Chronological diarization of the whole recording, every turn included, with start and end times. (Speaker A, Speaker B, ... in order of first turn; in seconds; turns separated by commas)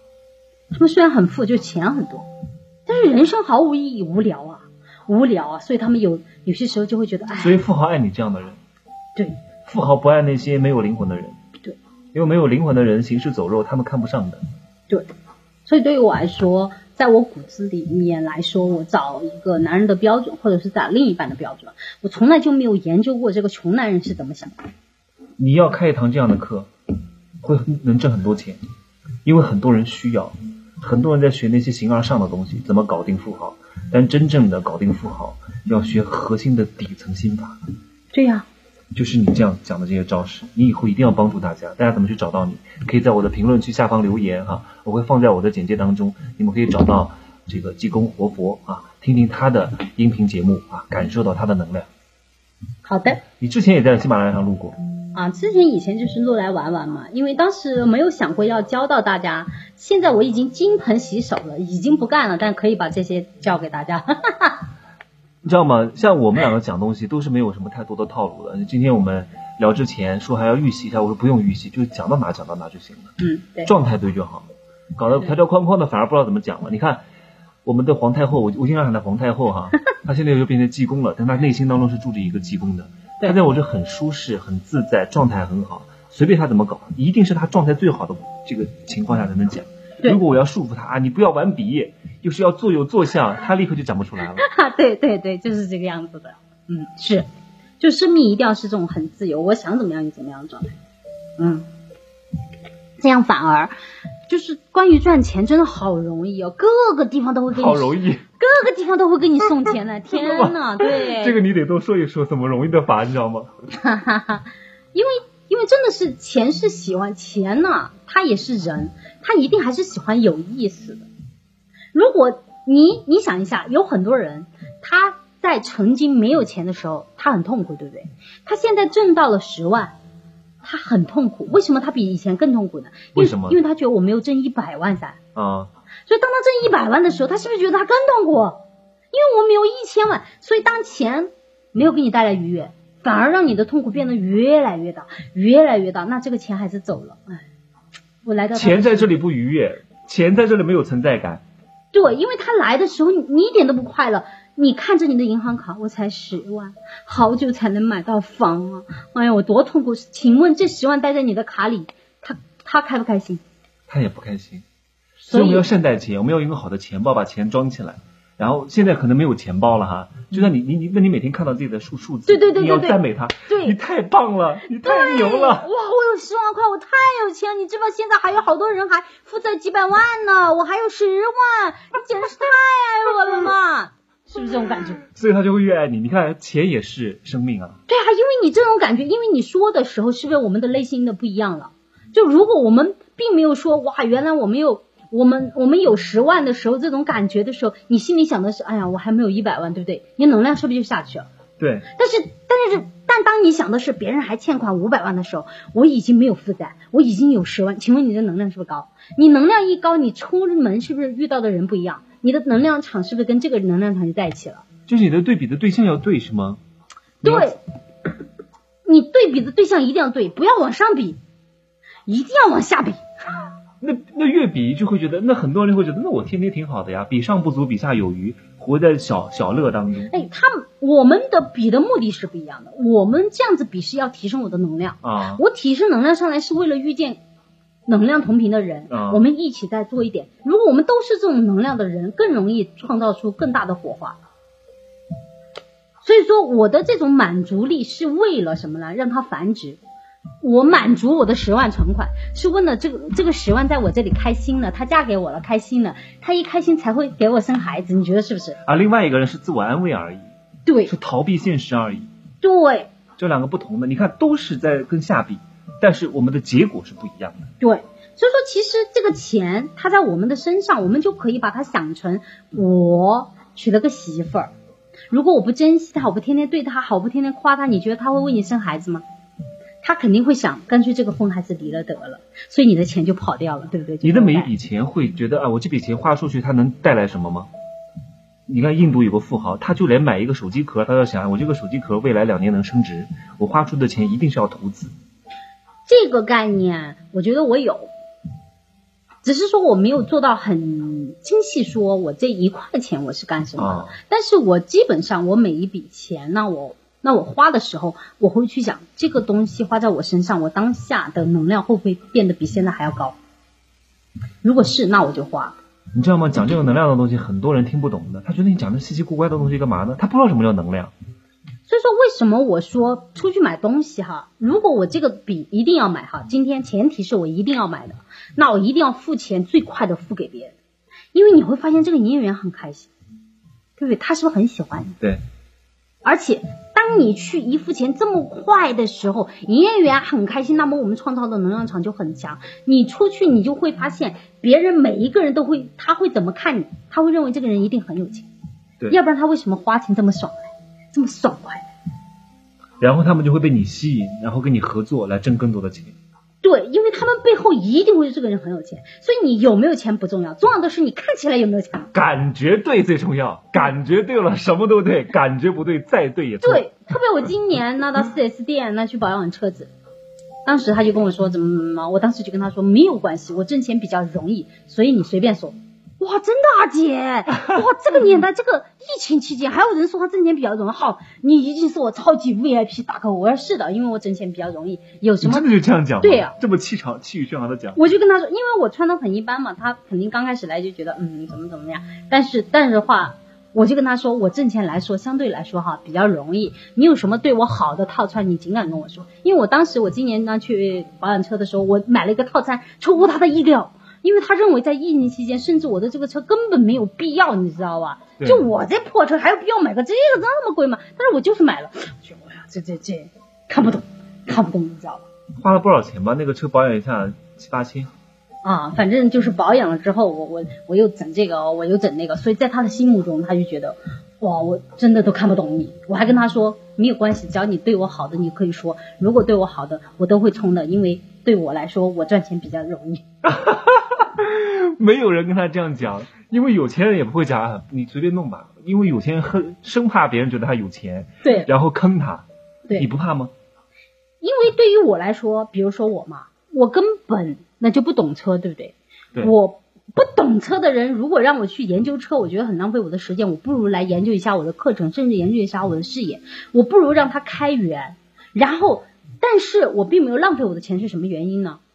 Speaker A: 0.7-2.3, Speaker A: 2.9-7.6, Speaker B: 7.4-8.6, Speaker B: 9.7-11.4, Speaker B: 12.1-14.4, Speaker A: 15.7-24.6, Speaker B: 25.4-26.7, Speaker B: 27.4-28.6, Speaker B: 29.2-37.6, Speaker A: 38.1-38.5, Speaker B: 38.9-51.9, Speaker A: 52.9-53.2, Speaker B: 53.4-54.8, Speaker A: 55.1-64.7, Speaker B: 65.4-73.1, Speaker A: 73.2-73.7, Speaker B: 73.7-77.0, Speaker B: 77.7-94.5, Speaker A: 94.4-97.3, Speaker A: 97.8-100.8, Speaker A: 101.4-101.7, Speaker A: 103.0-103.7, Speaker A: 104.3-111.4, Speaker B: 107.5-108.2, Speaker B: 110.1-113.5, Speaker A: 113.7-121.0, Speaker A: 121.9-129.9, Speaker A: 130.6-135.2, Speaker B: 133.2-133.6, Speaker B: 135.3-135.7, Speaker A: 136.1-138.6, Speaker A: 139.1-147.4, Speaker A: 148.2-149.1, Speaker B: 148.5-151.4, Speaker A: 151.9-163.4, Speaker B: 163.9-164.7, Speaker A: 165.2-165.7, Speaker B: 165.3-175.7, Speaker A: 172.3-173.8, Speaker A: 174.7-185.0, Speaker B: 185.1-187.8, Speaker A: 187.9-201.3, Speaker B: 201.6-201.9, Speaker A: 202.0-214.7, Speaker B: 214.9-216.6, Speaker B: 217.2-217.6, Speaker A: 217.2-217.6, Speaker A: 218.8-221.2, Speaker A: 222.1-223.1, Speaker B: 223.8-230.1, Speaker A: 230.1-237.2, Speaker B: 235.0-235.4, Speaker A: 237.9-244.2, Speaker B: 238.9-239.2, Speaker A: 246.0-249.8, Speaker A: 250.4-258.6, Speaker B: 258.6-260.3, Speaker A: 260.7-260.9, Speaker B: 260.9-262.1, Speaker A: 262.4-262.9, Speaker B: 263.2-267.5, Speaker A: 267.6-274.5, Speaker A: 275.1-279.1, Speaker A: 279.8-284.5, Speaker B: 284.0-287.5, Speaker B: 288.5-294.9, Speaker A: 295.9-297.9, Speaker A: 299.2-313.2, Speaker B: 303.6-304.0, Speaker A: 314.4-315.6, Speaker B: 315.9-320.9, Speaker A: 321.7-330.6, Speaker A: 331.1-332.9, Speaker A: 333.8-335.0, Speaker A: 336.0-348.3, Speaker A: 348.9-351.7, Speaker B: 352.8-356.0, Speaker A: 356.4-361.9, Speaker B: 361.9-366.7, Speaker A: 366.4-369.7, Speaker A: 370.4-385.5, Speaker B: 385.2-387.8, Speaker A: 386.0-386.4, Speaker A: 387.8-415.1, Speaker B: 408.2-408.5, Speaker B: 415.4-417.9, Speaker A: 418.4-433.0, Speaker B: 433.2-442.2, Speaker A: 441.2-441.5, Speaker B: 442.8-443.3, Speaker A: 444.2-461.6